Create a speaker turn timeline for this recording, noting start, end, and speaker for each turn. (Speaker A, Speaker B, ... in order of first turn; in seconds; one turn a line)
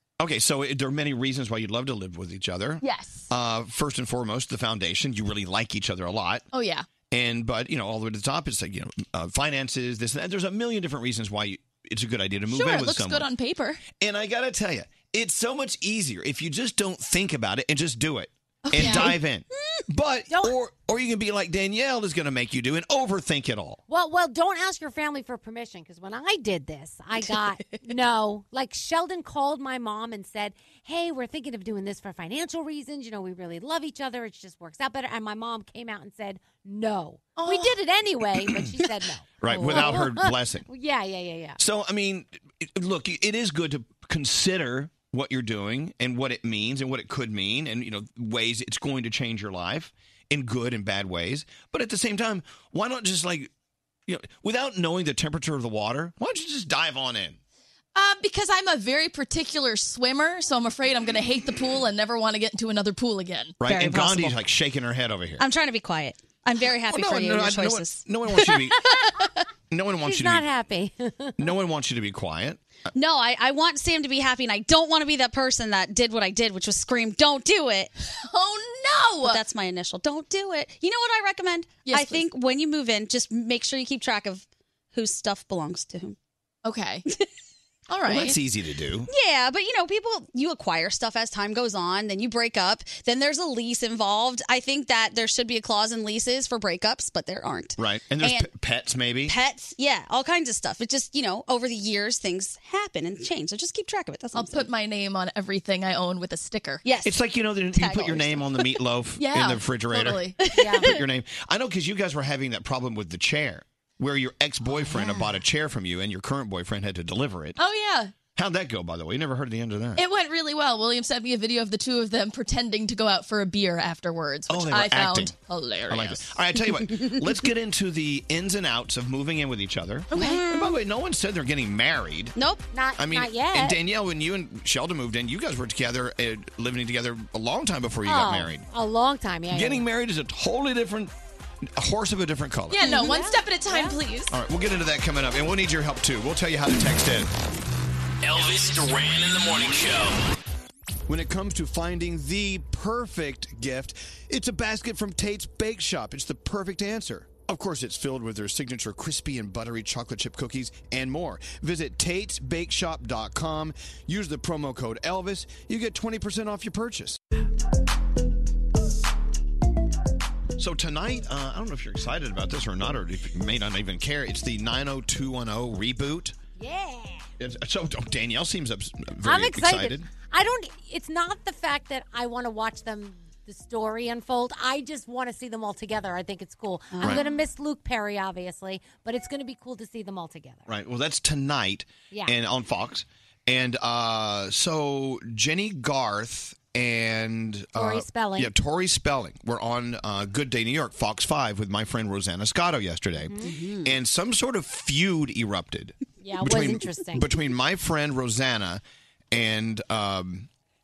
Speaker A: 0.2-6.4
Speaker B: 2.8-3.3
Speaker B: 6.5-6.8
Speaker A: 7.1-13.2
Speaker B: 12.5-13.8
Speaker A: 14.0-23.8
Speaker B: 18.6-19.1
Speaker C: 18.8-19.8
Speaker D: 20.3-20.5
Speaker D: 23.9-41.6
Speaker B: 37.4-37.7
Speaker A: 39.4-40.6
Speaker A: 41.6-53.5
Speaker A: 54.1-57.4
Speaker B: 57.9-63.5
Speaker A: 63.6-65.4
Speaker C: 63.6-64.4
Speaker C: 65.4-69.4
Speaker A: 66.9-68.8
Speaker A: 69.7-70.4
Speaker D: 70.0-71.4
Speaker A: 71.4-72.6
Speaker C: 72.9-77.9
Speaker B: 78.2-79.4
Speaker C: 79.2-86.2
Speaker B: 81.8-82.2
Speaker B: 86.6-87.0
Speaker B: 87.9-88.4
Speaker A: 88.1-89.1
Speaker C: 89.1-98.5
Speaker A: 97.8-99.3
Speaker C: 99.3-104.7
Speaker B: 104.3-106.8
Speaker C: 106.8-107.2
Speaker A: 107.0-110.2
Speaker C: 107.7-108.6
Speaker B: 109.2-110.5
Speaker C: 110.5-111.0
Speaker D: 110.6-110.8
Speaker A: 110.8-117.6
Speaker D: 114.9-115.2
Speaker B: 117.6-118.1
Speaker A: 118.3-120.0
Speaker B: 120.0-126.3
Speaker A: 124.5-125.3
Speaker A: 125.9-132.3
Speaker C: 130.1-130.8
Speaker C: 132.3-132.7
Speaker D: 132.7-133.8
Speaker A: 133.0-138.6
Speaker D: 138.1-139.8
Speaker A: 139.5-141.1
Speaker A: 141.8-142.8
Speaker B: 142.7-144.3
Speaker C: 142.8-143.1
Speaker D: 142.9-144.0
Speaker A: 144.3-147.3
Speaker E: 148.2-150.2
Speaker A: 151.1-167.2
Speaker A: 170.6-176.3
Speaker D: 176.6-177.3
Speaker A: 177.4-180.1
Speaker D: 179.2-190.7
Speaker C: 186.9-187.3
Speaker A: 190.7-208.8
Speaker D: 197.8-198.5
Speaker D: 203.3-203.5
Speaker C: 203.3-203.9
Speaker D: 206.2-207.3
Speaker A: 209.3-210.5